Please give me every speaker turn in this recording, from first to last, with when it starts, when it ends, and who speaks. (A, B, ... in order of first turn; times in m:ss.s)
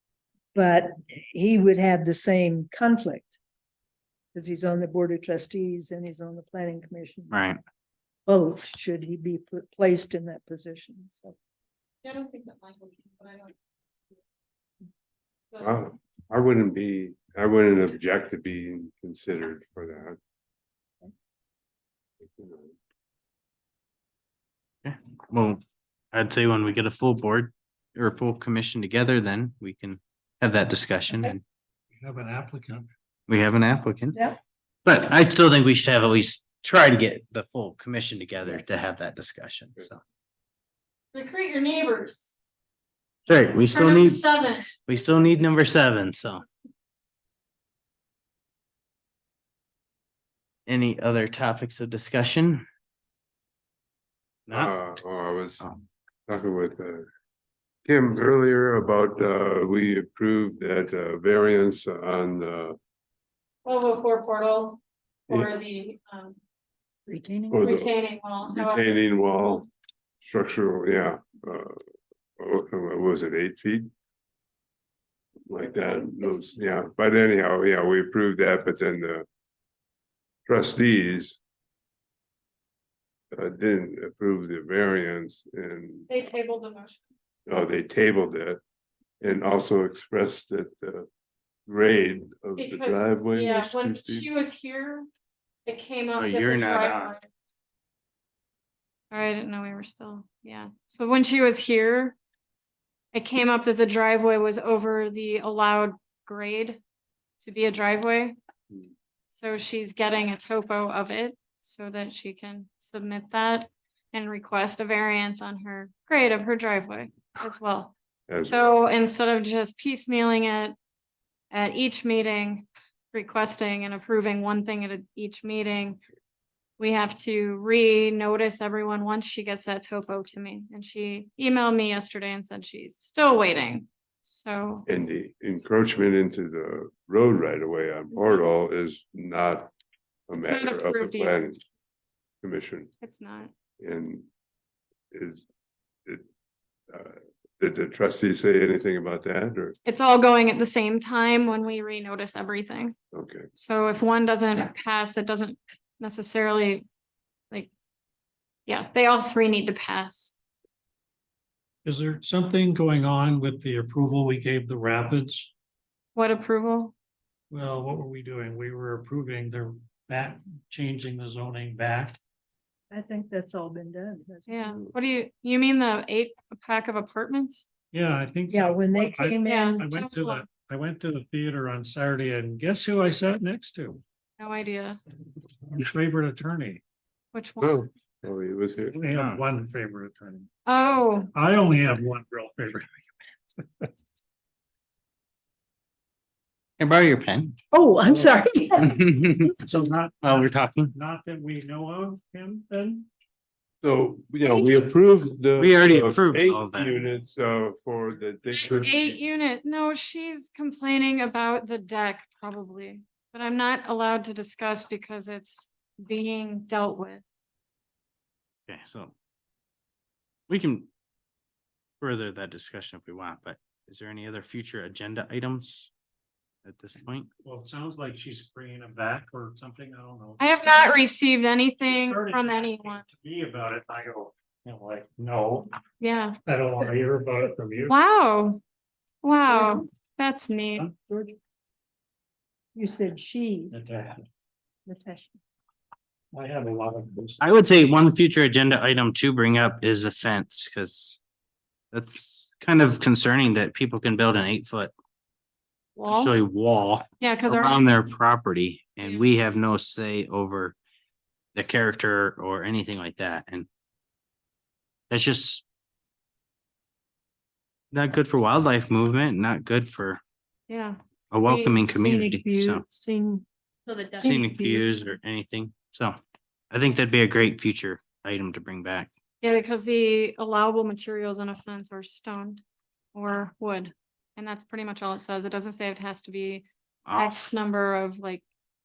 0:00.5-0:03.4 A
0:04.3-0:07.4 A
0:07.3-0:07.6 B
0:08.3-0:11.4 A
0:12.0-0:13.5 C
0:15.6-0:20.2 D
0:22.3-0:22.8 D
0:24.8-0:31.4 B
0:32.0-0:32.9 E
0:33.3-0:34.2 B
0:34.1-0:34.4 A
0:34.8-0:40.0 B
0:41.1-0:42.4 C
0:43.3-0:44.2 B
0:43.6-0:44.8 C
0:44.9-0:46.4 B
0:50.7-0:52.7 B
0:54.5-0:54.7 B
0:54.5-0:55.6 D
0:56.3-0:57.1 D
0:57.9-1:02.8 D
1:03.6-1:06.4 C
1:07.1-1:07.7 A
1:07.5-1:07.9 D
1:07.6-1:09.0 C
1:08.5-1:09.7 D
1:10.2-1:11.8 D
1:12.4-1:13.9 D
1:15.5-1:19.3 D
1:20.5-1:21.4 D
1:23.3-1:26.1 D
1:26.1-1:27.0 C
1:27.5-1:28.6 D
1:29.2-1:31.1 D
1:31.7-1:34.3 D
1:32.6-1:35.1 C
1:35.7-1:37.3 C
1:36.2-1:37.1 B
1:39.1-1:42.2 C
1:43.1-1:46.8 C
1:47.4-1:48.4 C
1:49.3-1:58.0 C
1:58.3-1:58.7 D
1:58.5-2:00.8 C
2:01.5-2:06.0 C
2:06.8-2:14.9 C
2:14.9-2:19.7 D
2:20.3-2:21.6 D
2:20.4-2:21.5 C
2:22.4-2:22.9 D
2:23.0-2:23.5 C
2:23.8-2:24.3 D
2:25.1-2:25.4 D
2:26.9-2:29.8 D
2:29.8-2:33.0 C
2:33.1-2:33.5 D
2:33.6-2:36.8 C
2:38.7-2:40.4 C
2:41.8-2:45.5 E
2:46.2-2:46.9 C
2:47.5-2:52.2 E
2:52.9-2:54.9 A
2:54.5-2:57.7 C
2:57.9-3:04.0 E
2:58.5-2:59.9 A
2:59.4-3:00.4 C
3:04.4-3:05.0 C
3:05.6-3:06.8 E
3:07.3-3:07.8 C
3:07.6-3:09.0 D
3:08.9-3:10.5 E
3:09.1-3:09.4 B
3:10.7-3:11.3 C
3:11.3-3:13.9 E
3:16.8-3:17.6 B
3:17.7-3:19.0 A
3:18.0-3:18.8 E
3:18.8-3:19.6 B
3:19.5-3:23.1 E
3:20.2-3:20.9 B
3:23.8-3:29.2 D
3:25.6-3:27.0 B
3:28.6-3:37.2 C
3:38.7-3:39.1 B
3:40.5-3:40.9 B
3:42.0-3:45.9 B
3:46.6-3:47.3 B
3:47.4-3:51.0 E
3:50.4-3:53.0 C
3:51.8-3:55.8 E
3:56.0-3:56.4 C
3:56.5-3:58.0 E
3:57.9-3:58.6 C
3:59.2-4:00.9 C
3:59.5-3:59.9 A
4:00.8-4:01.3 E
4:02.8-4:03.8 A
4:03.7-4:04.3 E
4:04.9-4:05.4 A
4:06.3-4:07.4 E
4:07.4-4:11.2 B
4:11.9-4:14.9 B
4:16.0-4:16.3 C
4:16.1-4:20.8 B
4:17.2-4:17.8 C
4:21.6-4:23.7 B
4:25.1-4:25.6 B
4:27.9-4:30.2 B
4:30.7-4:31.8 C
4:31.3-4:32.8 B
4:31.9-4:33.4 A
4:34.0-4:34.9 A
4:34.2-4:36.2 B
4:36.7-4:39.1 B
4:39.4-4:42.6 C
4:43.1-4:48.4 C
4:47.1-4:47.6 B